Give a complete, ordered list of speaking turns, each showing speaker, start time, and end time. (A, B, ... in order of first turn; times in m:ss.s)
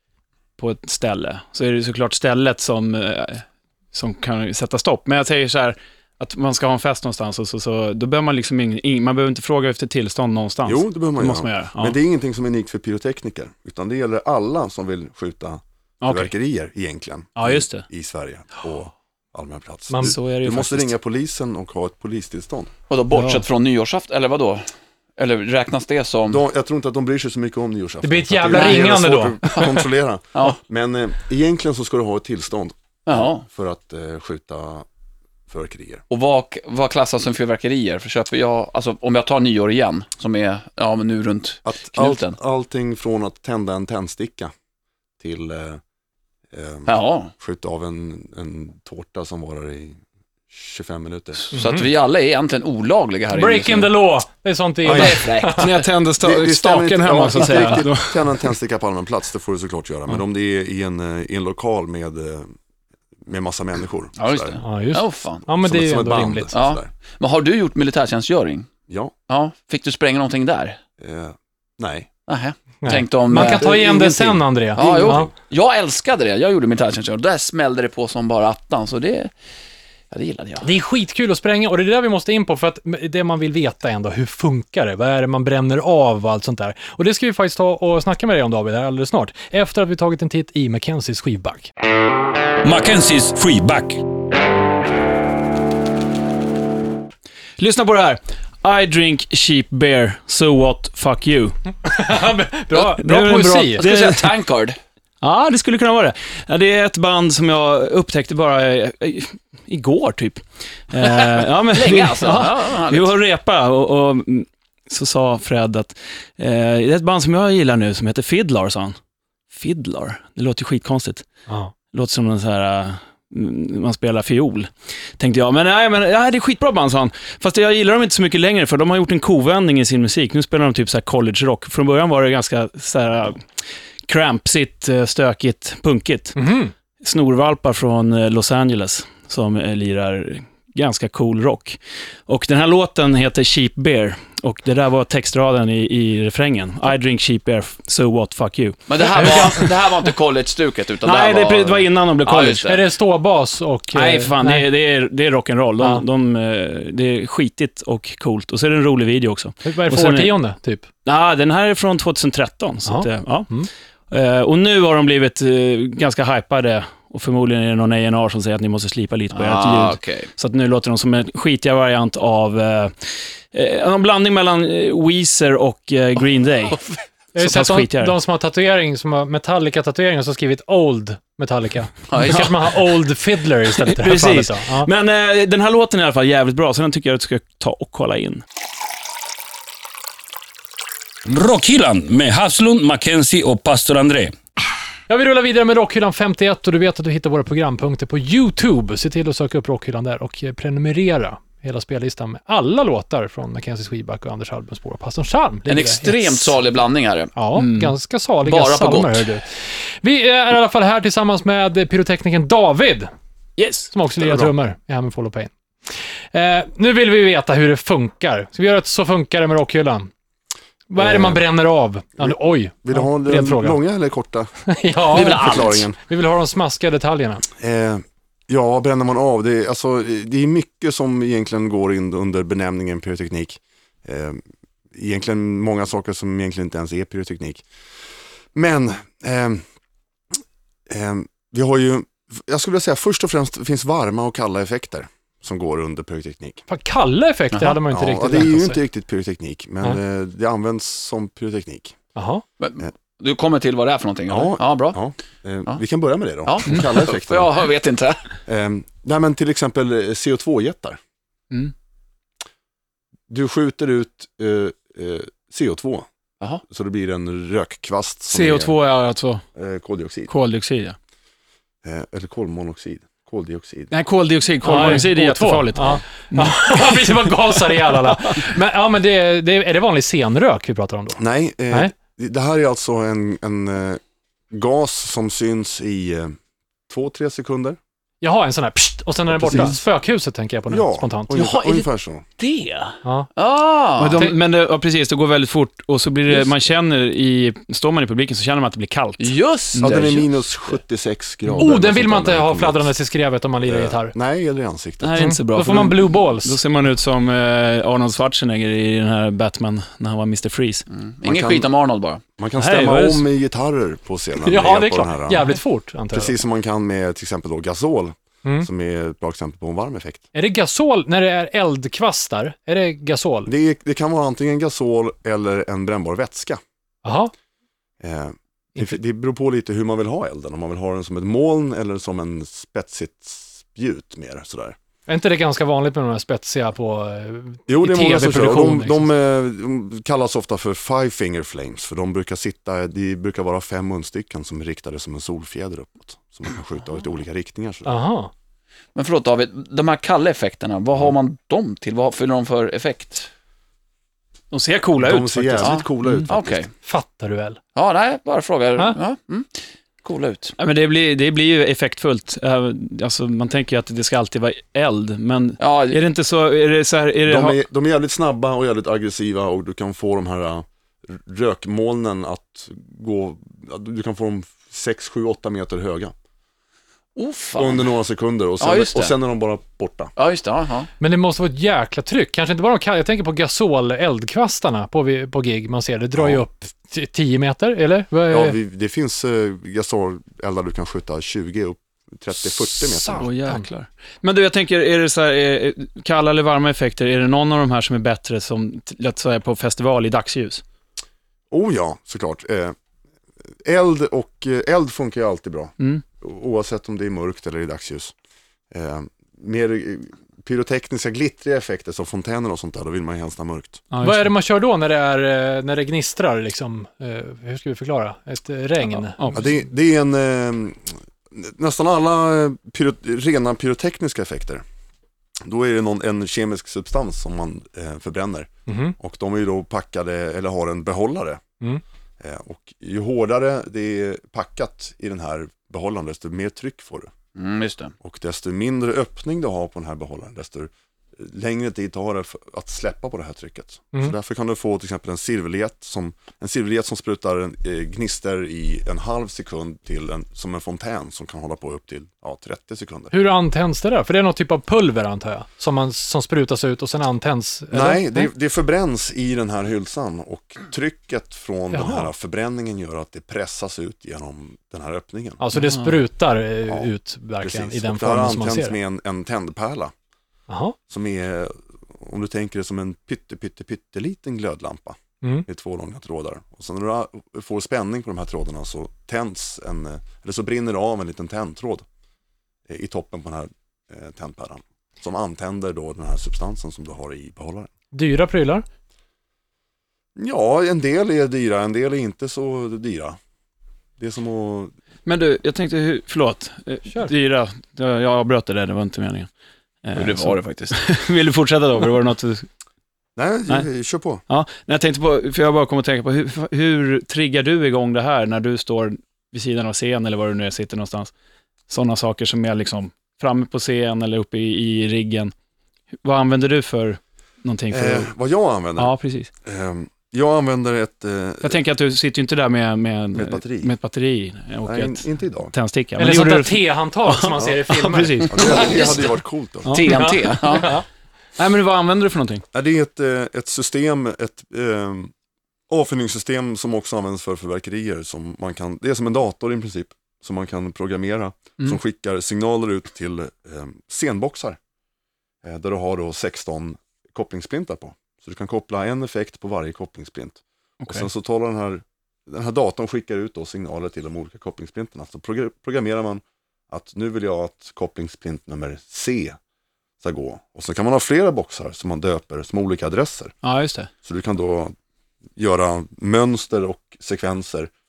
0:00.6-0:12.0 A
0:10.6-0:22.7 B
0:16.0-0:16.3 A
0:17.4-0:17.8 A
0:19.9-0:20.1 C
0:20.0-0:20.9 A
0:22.9-0:26.4 D
0:23.1-0:23.4 A
0:26.3-0:34.8 B
0:28.0-0:29.6 C
0:33.0-0:33.4 D
0:35.5-0:36.0 B
0:36.1-0:42.4 D
0:41.6-0:44.5 B
0:45.2-0:45.8 B
0:46.5-0:51.4 B
0:46.8-0:47.3 D
0:51.4-0:53.9 D
0:53.3-0:55.7 C
0:54.8-0:55.1 B
0:54.8-0:55.9 D
0:54.9-0:58.4 A
0:56.2-1:02.5 B
1:03.2-1:04.6 B
1:04.2-1:05.4 D
1:04.6-1:06.5 C
1:05.5-1:06.9 B
1:06.5-1:08.7 D
1:08.9-1:09.1 B
1:09.3-1:10.8 D
1:11.0-1:12.1 B
1:12.3-1:13.7 D
1:12.8-1:15.3 C
1:13.3-1:15.3 B
1:14.8-1:19.3 D
1:20.1-1:20.6 D
1:20.6-1:31.7 C
1:32.6-1:34.0 E
1:37.6-1:41.6 A
1:41.8-1:43.8 C
1:42.7-1:44.3 A
1:43.8-1:44.8 D
1:45.2-1:59.0 A
1:51.0-1:53.1 D
1:59.5-2:01.3 A
2:01.5-2:01.7 C
2:01.9-2:13.5 A
2:14.1-2:16.4 A
2:16.3-2:16.7 C
2:17.0-2:29.7 A
2:28.9-2:32.9 D
2:29.2-2:29.7 C
2:31.0-2:32.7 A
2:32.6-2:34.6 C
2:33.9-2:40.4 A
2:39.6-2:40.9 C
2:41.0-2:43.5 A
2:42.8-2:43.7 C
2:44.1-2:56.8 A
2:49.3-2:50.3 D
2:57.3-3:04.9 C
2:57.4-2:58.1 A
3:02.1-3:02.6 D
3:03.8-3:08.4 A
3:11.2-3:14.3 E
3:15.1-3:26.5 C
3:25.7-3:27.3 D
3:27.4-3:33.1 C
3:27.5-3:27.9 A
3:28.4-3:29.3 D
3:33.6-3:33.9 A
3:33.9-3:35.5 C
3:34.2-3:34.5 B
3:36.3-3:40.1 C
3:40.9-3:43.8 C
3:41.0-3:41.4 B
3:42.2-3:44.5 B
3:44.7-3:47.4 C
3:45.1-3:46.0 B
3:45.1-3:45.9 D
3:47.5-3:54.4 B
3:54.9-3:57.6 B
3:58.5-3:59.6 B
4:00.9-4:06.6 B
4:06.7-4:08.8 C
4:07.8-4:12.0 B
4:12.2-4:12.4 C
4:12.6-4:15.0 D
4:14.3-4:17.5 B
4:16.4-4:18.3 D
4:18.4-4:21.0 B
4:23.3-4:26.1 B
4:26.7-4:28.8 B
4:28.3-4:29.4 A
4:29.5-4:30.3 B
4:30.3-4:31.0 A
4:31.8-4:33.9 B
4:33.9-4:38.4 A
4:34.6-4:41.2 C
4:35.7-4:36.0 B
4:41.2-4:44.0 B
4:44.5-4:46.4 B
4:46.9-4:47.8 B
4:48.2-4:51.3 C
4:49.3-4:49.8 B
4:49.5-4:49.8 A
4:50.7-4:52.2 B
4:51.3-4:51.9 D
4:52.4-4:54.3 D
4:54.0-4:59.3 A
4:59.2-5:00.5 D
4:59.8-5:02.9 B
5:01.6-5:04.1 C
5:03.6-5:05.9 B
5:05.0-5:10.8 A
5:05.2-5:06.6 C
5:10.9-5:12.2 D
5:11.2-5:11.7 B
5:12.4-5:15.5 B
5:12.6-5:13.2 A
5:14.4-5:16.4 C
5:16.1-5:20.2 B
5:20.3-5:23.5 C
5:23.5-5:26.6 B
5:27.0-5:27.3 C
5:28.0-5:34.8 B
5:35.1-5:39.1 C
5:37.7-5:47.9 B
5:47.8-5:48.3 C
5:48.9-5:53.3 D
5:54.5-5:56.3 A
5:55.0-5:56.6 B
5:55.6-5:56.7 D
5:56.8-5:57.6 C
5:57.7-6:00.5 D
6:00.6-6:07.6 A
6:05.6-6:06.0 D
6:07.2-6:16.1 B
6:17.2-6:17.9 D
6:17.6-6:20.1 B
6:18.6-6:19.1 D
6:20.2-6:20.9 D
6:21.0-6:28.6 C
6:26.2-6:26.4 B
6:28.3-6:33.3 B
6:32.8-6:33.7 C
6:33.1-6:40.6 A
6:41.5-6:42.8 B
6:43.6-6:48.1 B
6:48.7-6:53.8 B
6:53.9-6:54.3 A
6:54.0-6:59.3 C
6:59.1-6:59.4 A
6:59.3-7:04.6 B
7:05.4-7:11.4 B
7:08.7-7:09.0 C
7:12.2-7:17.1 B
7:17.3-7:17.9 D
7:18.0-7:33.1 B
7:33.1-7:38.3 C
7:37.7-7:45.4 B
7:41.7-7:42.1 C
7:45.4-7:48.8 C
7:45.5-7:46.0 A
7:47.4-7:49.9 B
7:50.5-7:50.8 C
7:50.9-8:01.8 B
8:02.7-8:07.7 B
8:07.9-8:08.6 C
8:10.2-8:13.2 B
8:14.0-8:14.7 B
8:15.0-8:19.3 A
8:19.8-8:22.5 A
8:19.9-8:20.8 D
8:23.2-8:24.2 B
8:24.3-8:31.1 A
8:31.7-8:35.3 A
8:36.0-8:38.1 A
8:37.7-8:41.6 B
8:38.8-8:39.3 A
8:41.4-8:49.0 A
8:43.1-8:43.8 B
8:44.6-8:45.5 B
8:46.0-8:48.4 C
8:48.3-8:49.8 B
8:48.4-8:49.1 D
8:49.6-8:50.7 A
8:49.7-8:50.7 D
8:49.9-8:50.8 C
8:51.4-8:52.4 A
8:52.5-8:55.1 B
8:55.7-9:04.6 B
9:05.4-9:19.4 B
9:10.8-9:11.1 A
9:20.0-9:23.3 B
9:23.4-9:23.9 A
9:24.0-9:24.7 B
9:25.4-9:27.7 B